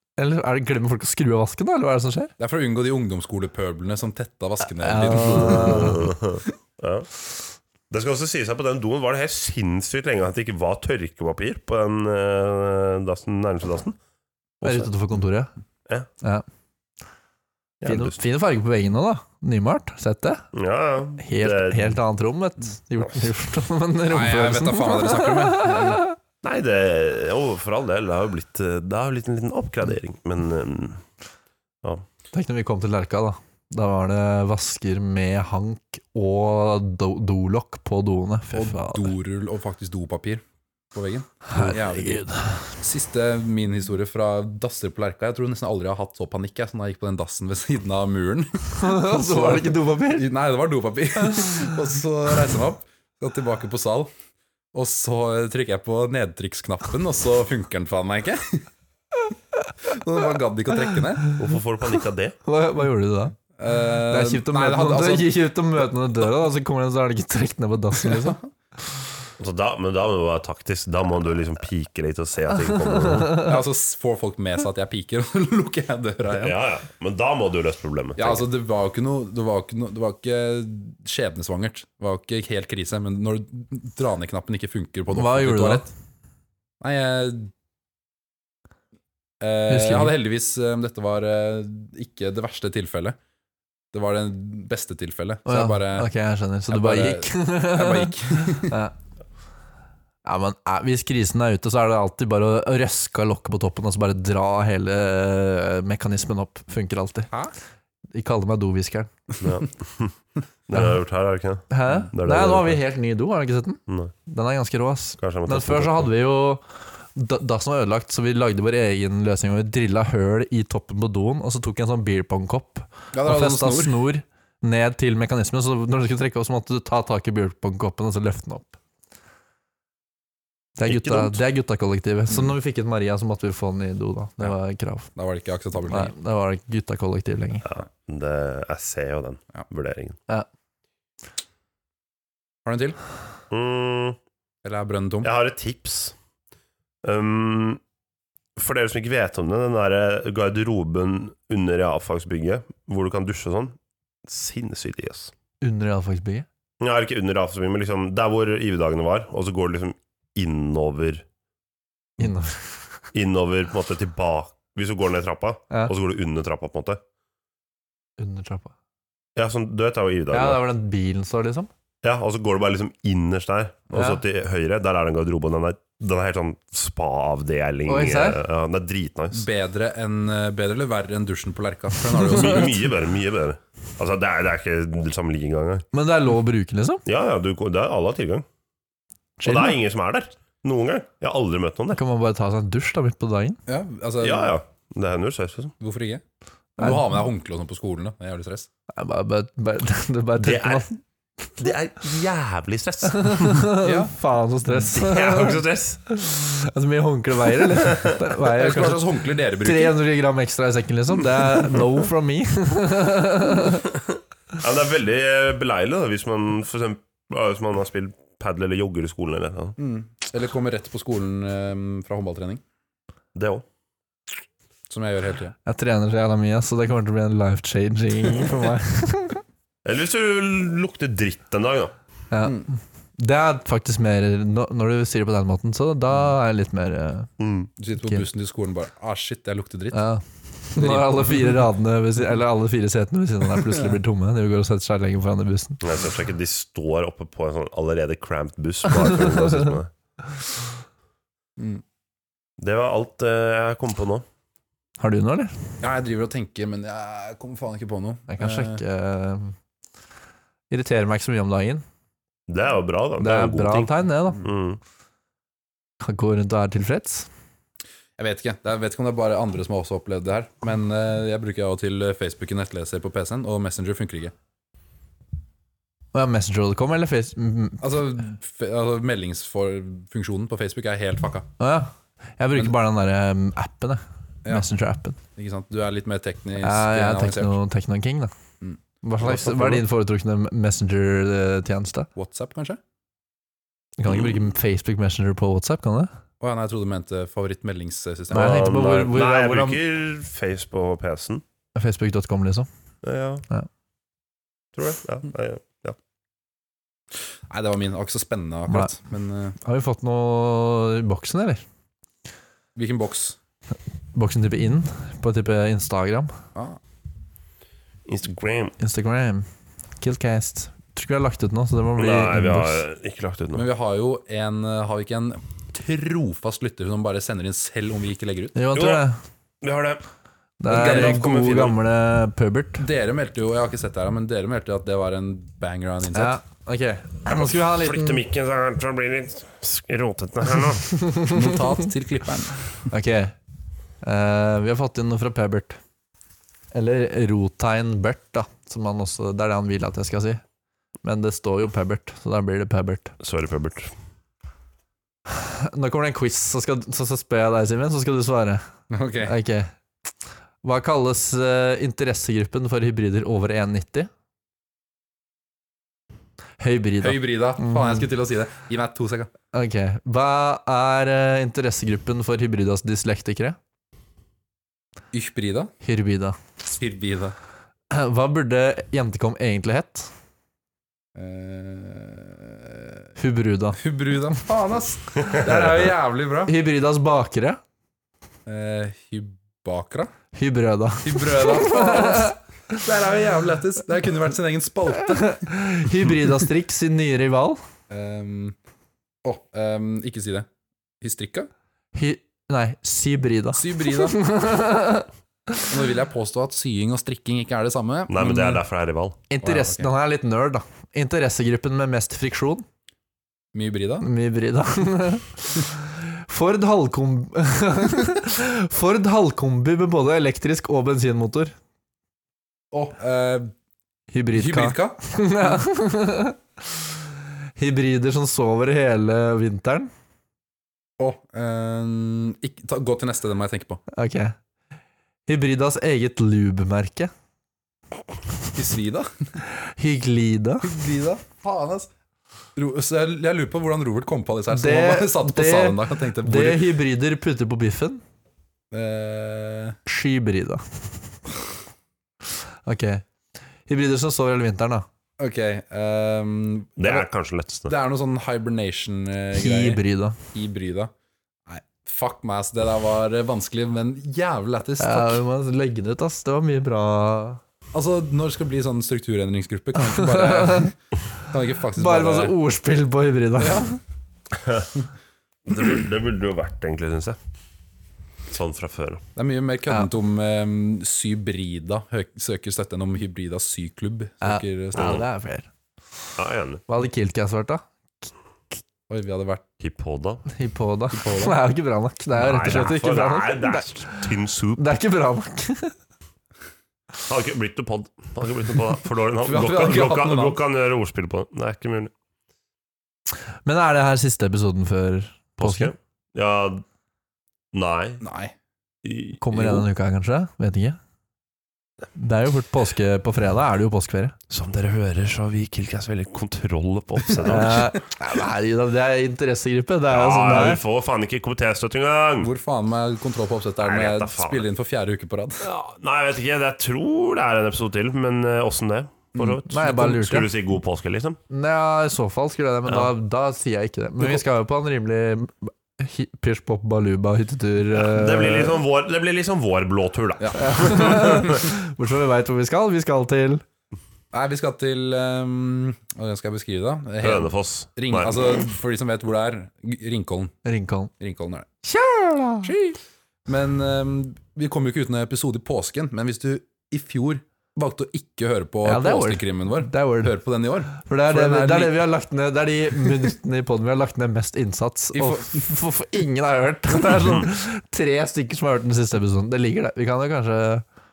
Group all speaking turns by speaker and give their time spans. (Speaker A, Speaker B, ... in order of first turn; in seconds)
Speaker A: 0.2-2.3, 4.8-6.1, 14.6-15.5, 17.9-20.5, 21.2-26.1, 32.3-39.1, 41.5-42.7, 48.8-50.3, 51.4-51.6, 60.9-61.4, 62.5-63.4, 64.0-68.4, 72.9-73.5, 85.1-85.9, 89.7-90.2, 95.5-98.9, 100.2-107.3, 108.1-109.1, 111.7-128.8, 130.8-135.1, 135.9-137.7, 155.6-156.5, 162.2-162.7, 168.2-168.7, 170.3-171.7, 173.9-174.2, 177.9-178.4, 185.9-187.0, 189.4-189.8, 191.9-193.6, 196.8-197.1, 198.9-200.9, 203.1-209.1, 209.6-213.9, 225.7-229.4, 232.3-237.3, 239.9-245.8, 255.0-255.7, 258.3-259.6, 260.7-261.8, 263.2-264.4, 266.0-267.3, 276.1-277.9, 281.6-285.2, 286.6-288.3, 289.0-292.1, 294.0-296.1, 298.3-299.8, 301.8-302.7, 309.6-311.6, 314.1-316.3, 318.8-319.5, 320.0-322.8, 328.6-329.2, 330.6-332.8, 336.1-338.2, 341.0-341.4, 342.9-343.4, 344.0-345.8, 346.7-350.4, 351.0-353.1, 355.3-358.6, 359.2-359.7, 360.6-364.1, 366.6-368.1, 369.5-373.6, 375.8-376.4, 377.9-380.1, 383.2-383.8, 386.5-387.6, 390.3-392.4, 395.1-397.6, 401.9-405.7, 409.3-412.7, 414.0-421.6, 424.1-426.4, 427.6-429.9, 433.9-434.4, 435.3-437.1, 439.5-440.8, 444.5-448.0, 449.9-450.9, 452.6-453.1, 453.7-454.9, 459.4-460.2, 464.8-467.4, 469.8-470.7, 471.8-473.8, 484.2-485.5, 486.7-488.1, 490.3-495.7, 503.4-505.7, 509.2-510.8, 511.9-514.1, 517.2-520.6, 529.5-530.3, 531.3-538.6, 540.3-543.4, 550.5-550.9, 551.6-552.5, 558.6-560.2, 560.7-570.6
Speaker B: 2.4-6.1, 24.1-26.0, 38.5-42.2, 42.8-54.1, 54.7-58.7, 59.8-61.3, 63.5-65.3, 68.0-68.4, 73.4-76.6, 78.2-85.9, 86.8-87.5, 89.4-93.2, 93.9-96.1, 96.7-98.8, 123.1-124.0, 135.2-136.1, 142.7-143.0, 144.6-145.3, 179.3-182.9, 193.7-194.5, 195.8-196.2, 196.8-198.7, 203.8-204.1, 208.4-210.0, 219.8-222.6, 224.9-225.6, 237.8-240.0, 240.8-241.6, 251.6-251.8, 255.8-258.8, 268.2-274.3, 277.8-281.5, 285.4-287.6, 288.6-289.6, 292.2-292.8, 296.4-298.7, 307.5-309.6, 312.8-313.4, 316.6-316.8, 323.5-328.6, 330.7-331.5, 332.8-336.4, 341.3-342.9, 358.9-359.4, 367.0-369.3, 375.1-375.7, 376.7-377.4, 381.1-383.0, 383.8-386.5, 388.5-390.1, 391.0-395.5, 397.9-398.6, 399.2-400.5, 401.0-401.5, 403.6-404.2, 405.7-408.6, 409.4-409.9, 413.5-414.1, 422.7-423.5, 424.3-425.0, 431.0-433.8, 438.5-439.3, 440.6-441.9, 442.6-446.7, 448.7-449.8, 455.2-457.1, 457.7-459.8, 460.3-460.9, 461.5-465.2, 467.7-472.4, 473.4-473.7, 479.2-485.0, 488.9-489.5, 490.9-491.4, 499.2-500.4, 508.0-508.3, 522.2-525.5, 529.1-529.4, 540.2-541.2, 544.1-550.4, 551.0-551.5, 552.4-561.8, 564.9-565.5
Speaker C: 5.2-7.1, 7.9-14.0, 14.6-14.9, 17.8-18.2, 20.5-22.0, 23.0-23.3, 26.4-31.0, 61.4-62.4, 69.4-73.5, 76.3-78.4, 109.4-110.2, 110.7-112.8, 113.9-114.1, 115.2-116.1, 130.9-131.4, 137.6-140.2, 143.5-144.2, 145.2-146.2, 147.0-147.8, 148.6-155.3, 156.8-161.2, 163.1-167.0, 169.4-170.6, 172.0-179.5, 182.1-185.9, 187.1-188.5, 189.4-192.0, 194.2-195.7, 200.4-200.9, 201.6-203.7, 204.8-206.0, 207.8-208.1, 214.6-219.8, 223.3-223.6, 229.8-231.9, 237.4-237.7, 245.8-249.9, 252.6-254.2, 262.5-264.8, 289.3-289.8, 294.1-294.4, 298.3-301.4, 303.0-303.4, 304.8-306.0, 318.1-318.8, 322.0-323.6, 328.8-329.0, 329.6-330.0, 330.7-331.8, 337.4-341.0, 353.2-353.9, 408.1-409.2, 456.8-457.7, 474.4-474.7, 475.5-477.2, 478.3-479.0, 484.8-485.1, 486.2-486.6, 489.6-490.2, 492.2-494.6, 497.1-501.9, 505.4-506.6, 507.5-508.0, 508.8-509.7, 514.3-517.8, 519.9-522.3, 523.6-524.5, 525.4-531.2, 537.7-541.4, 547.0-548.2